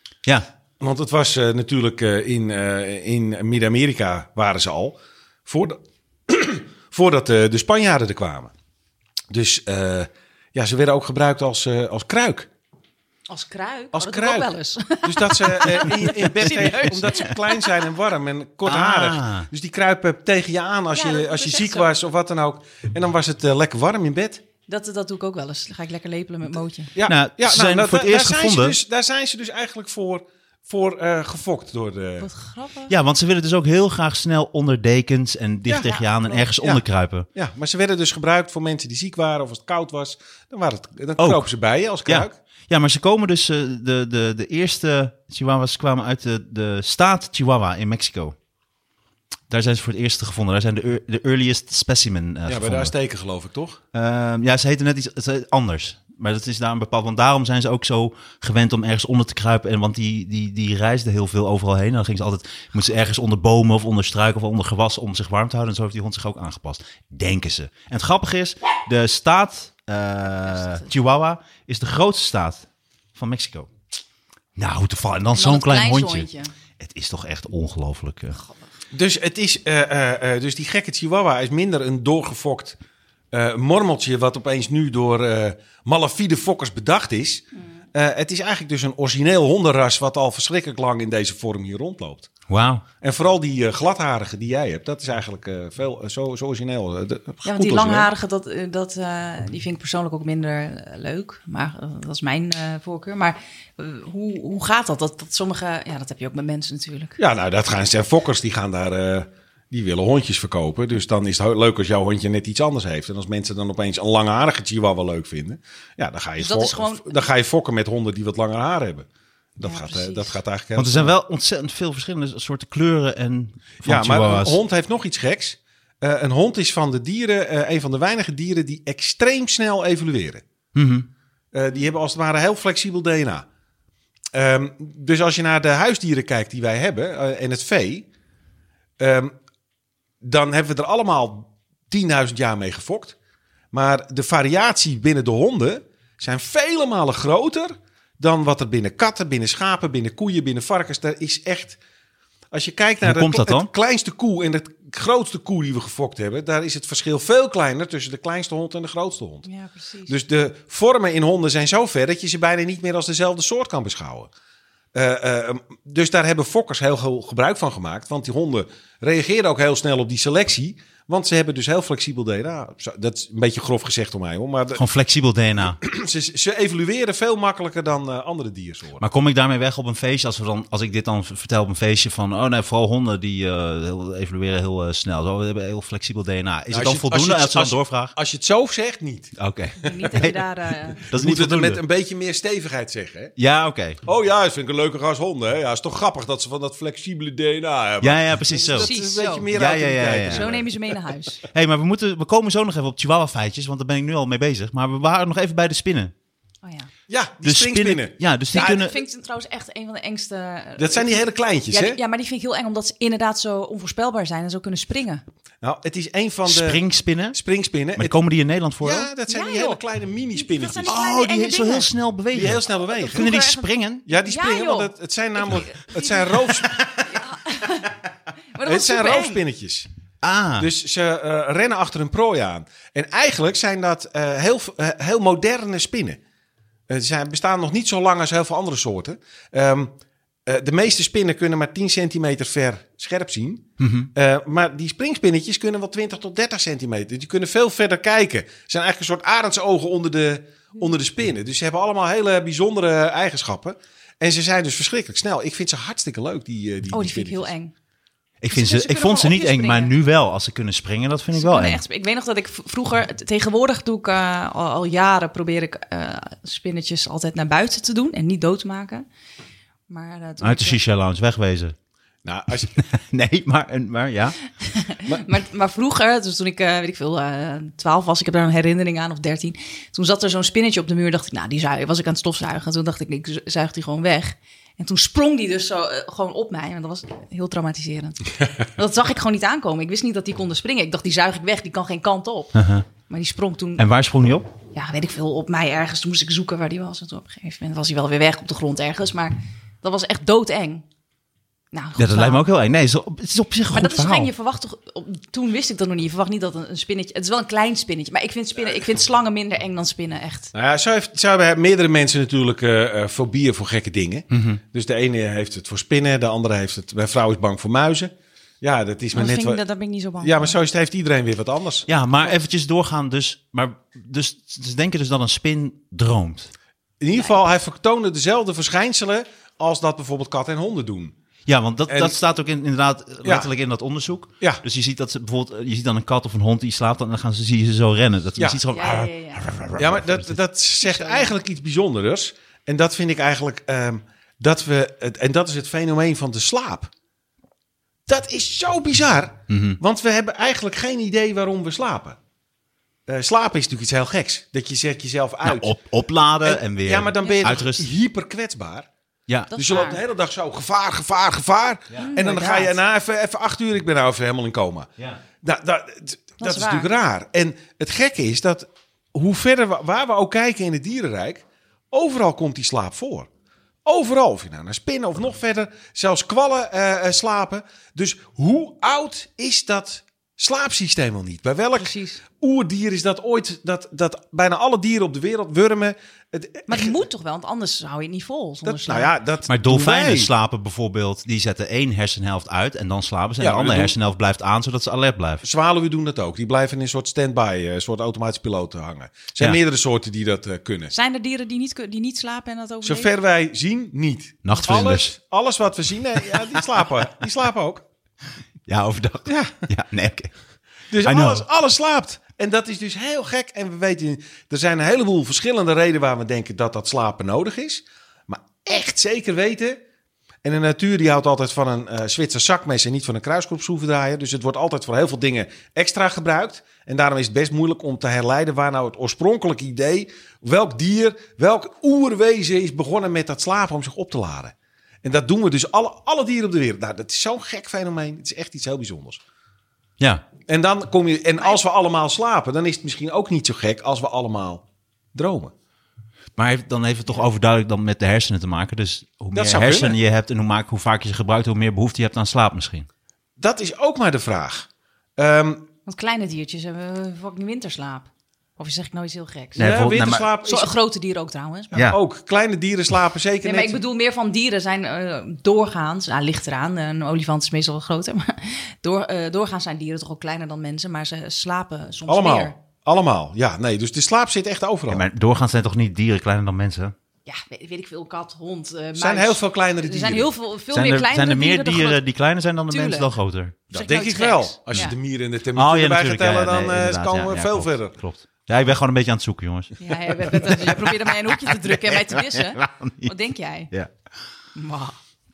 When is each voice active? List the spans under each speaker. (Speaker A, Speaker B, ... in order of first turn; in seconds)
Speaker A: 0.8-8.5, 9.3-12.5, 13.9-14.5, 15.0-24.4, 26.9-32.3, 35.7-35.9, 36.6-36.8, 37.3-42.4, 52.5-53.8, 78.9-82.8, 83.3-87.4, 87.9-92.3, 93.0-98.1, 107.2-121.1, 123.8-130.4, 131.5-133.5, 134.3-138.1, 139.0-139.3, 140.2-143.2, 143.7-151.8, 152.5-159.5, 160.1-164.3, 164.9-174.8, 175.6-179.0, 186.7-190.1, 191.1-193.3, 194.0-200.9, 207.1-208.9, 210.8-212.0, 215.6-216.8, 217.3-218.2, 218.8-221.0, 222.3-223.4, 224.1-226.8, 228.6-229.9, 230.6-236.2, 236.9-239.9, 240.5-257.5, 272.2-272.8, 310.5-319.6, 320.2-321.9, 327.0-331.1, 331.9-332.2, 339.8-346.9, 348.1-352.2, 353.1-355.8, 356.4-358.9, 359.6-364.9, 365.4-373.3, 373.9-387.0, 388.6-390.3, 393.4-393.9, 395.4-400.9, 402.8-407.9, 409.3-409.6, 410.9-419.8, 420.4-439.2, 440.5-445.5, 449.3-450.0, 453.4-455.6, 459.6-460.7, 461.7-463.8, 472.1-475.1, 479.0-480.3, 483.7-487.9
Speaker B: 13.3-17.9, 20.9-21.9, 24.7-26.9, 32.2-32.9, 35.7-36.5, 70.5-70.9, 75.3-76.5, 97.5-107.2, 116.4-117.3, 119.6-120.4, 159.5-160.1, 189.8-191.1, 198.6-199.5, 200.2-201.4, 206.6-206.9, 208.5-215.2, 219.3-219.8, 220.3-221.9, 222.8-227.9, 228.6-229.4, 256.9-257.7, 258.5-259.9, 261.3-269.1, 269.9-270.8, 274.6-293.9, 294.7-300.8, 301.7-302.4, 303.7-310.5, 319.1-320.6, 338.7-339.5, 340.8-341.3, 357.2-357.5, 359.5-360.0, 362.0-362.8, 366.4-366.9, 381.8-382.2, 386.7-389.1, 400.9-403.1, 455.9-461.9, 463.4-472.6, 477.3-482.0, 482.7-483.1, 483.7-485.0, 489.8-493.7, 494.6-495.0
Speaker C: 16.3-17.3, 18.6-19.5, 27.0-28.8, 32.9-37.3, 41.2-41.5, 42.0-48.4, 49.5-52.9, 53.9-73.7, 74.6-76.3, 76.8-78.4, 92.5-92.8, 120.8-124.6, 130.7-131.1, 153.0-153.7, 174.8-175.8, 179.0-188.1, 189.4-191.8, 193.4-194.0, 198.0-198.9, 199.5-200.5, 201.5-206.1, 207.4-209.0, 216.5-217.4, 218.0-219.1, 220.9-224.1, 226.7-227.1, 230.2-230.7, 243.8-244.1, 258.4-261.8, 270.4-271.8, 272.8-274.4, 292.6-292.9, 293.8-294.5, 302.0-304.3, 314.3-314.6, 321.9-326.5, 331.5-340.4, 349.5-349.8, 355.4-357.9, 359.3-359.5, 389.5-395.4, 404.4-405.1, 406.2-406.6, 408.7-410.3, 411.0-411.4, 440.0-440.3, 446.4-452.9, 459.6-460.3, 461.7-462.0, 474.9-476.9, 480.7-483.6, 485.6-493.1